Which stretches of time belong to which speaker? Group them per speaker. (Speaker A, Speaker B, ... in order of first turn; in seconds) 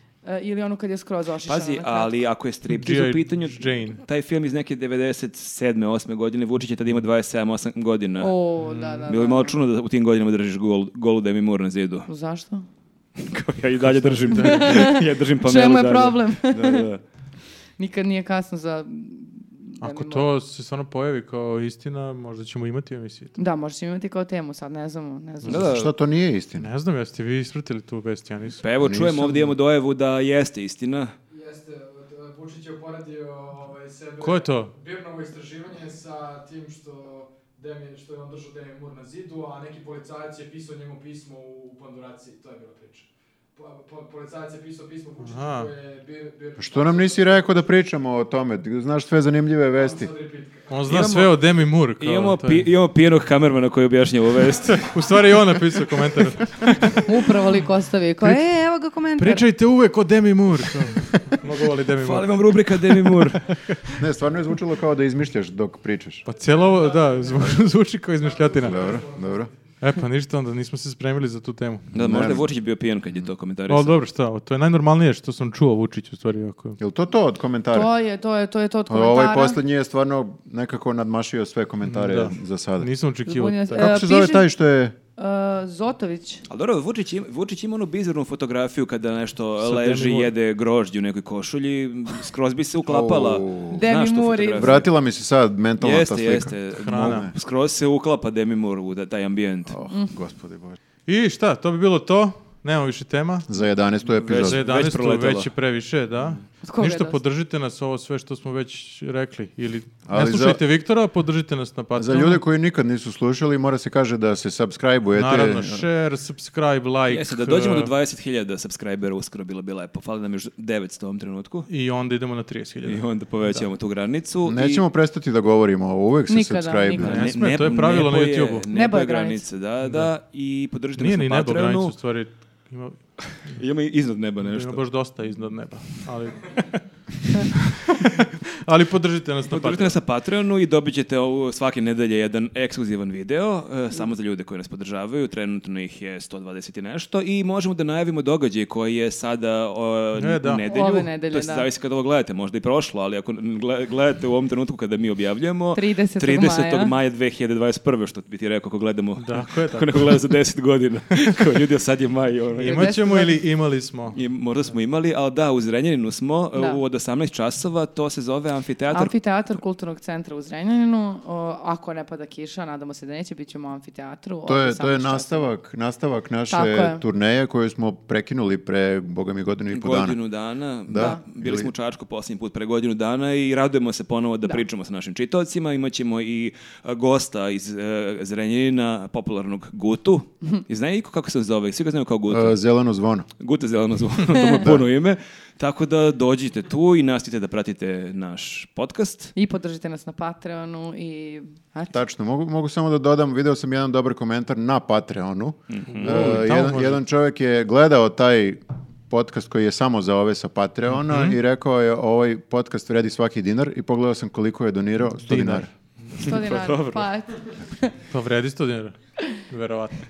Speaker A: 0.2-2.1, 8.2-9.6, 12.1-12.6, 14.3-16.9, 17.8-20.3, 23.4-25.6, 57.0-59.4, 77.7-79.6, 83.3-84.5, 85.2-86.4, 93.7-94.8, 106.6-107.2, 126.3-127.3, 128.7-129.5, 150.6-151.7, 155.7-156.9, 162.6-163.4, 168.9-175.5, 176.5-177.0, 194.4-194.7, 199.3-202.0, 216.1-217.9
Speaker B: 1.4-8.3, 9.1-12.1, 13.2-17.0, 25.4-25.9, 28.6-31.1, 50.9-54.9, 62.0-63.4, 71.9-74.0, 86.5-94.9, 95.8-99.8, 104.2-105.5, 117.1-121.7, 122.8-124.8, 127.0-131.9, 133.4-134.8, 139.5-162.9, 164.1-169.1, 179.7-192.6, 193.4-199.3, 205.7-206.2, 216.2-217.0
Speaker C: 2.7-4.0, 8.6-9.2, 13.8-14.9, 19.8-23.3, 26.6-28.6, 34.2-34.7, 45.2-45.7, 50.7-52.7, 54.8-57.0, 59.2-62.3, 63.5-63.8, 66.2-68.8, 69.8-71.8, 73.7-76.8, 81.8-84.0, 89.6-90.3, 96.7-97.3, 101.0-103.5, 104.3-112.4, 115.1-117.9, 121.7-123.7, 127.0-128.7, 129.8-130.1, 131.0-133.6, 134.4-136.8, 137.7-140.0, 150.2-150.6, 159.2-160.2, 162.6-164.2, 205.9-207.0, 211.0-211.4, 215.0-216.5, 218.1-219.9
Speaker D: 25.5-26.7, 28.8-29.5, 46.6-50.1, 64.0-66.2, 68.6-69.5, 71.9-72.5, 76.8-77.9, 78.9-82.9, 83.7-84.9, 92.8-93.8, 94.6-97.3, 99.7-100.8, 103.5-104.6, 110.0-110.6, 112.0-115.8, 124.5-127.3, 174.4-180.2, 180.9-181.7, 192.3-193.3, 201.9-215.7
Speaker E: 31.3-47.7, 49.7-50.9, 54.7-55.2, 66.3-69.5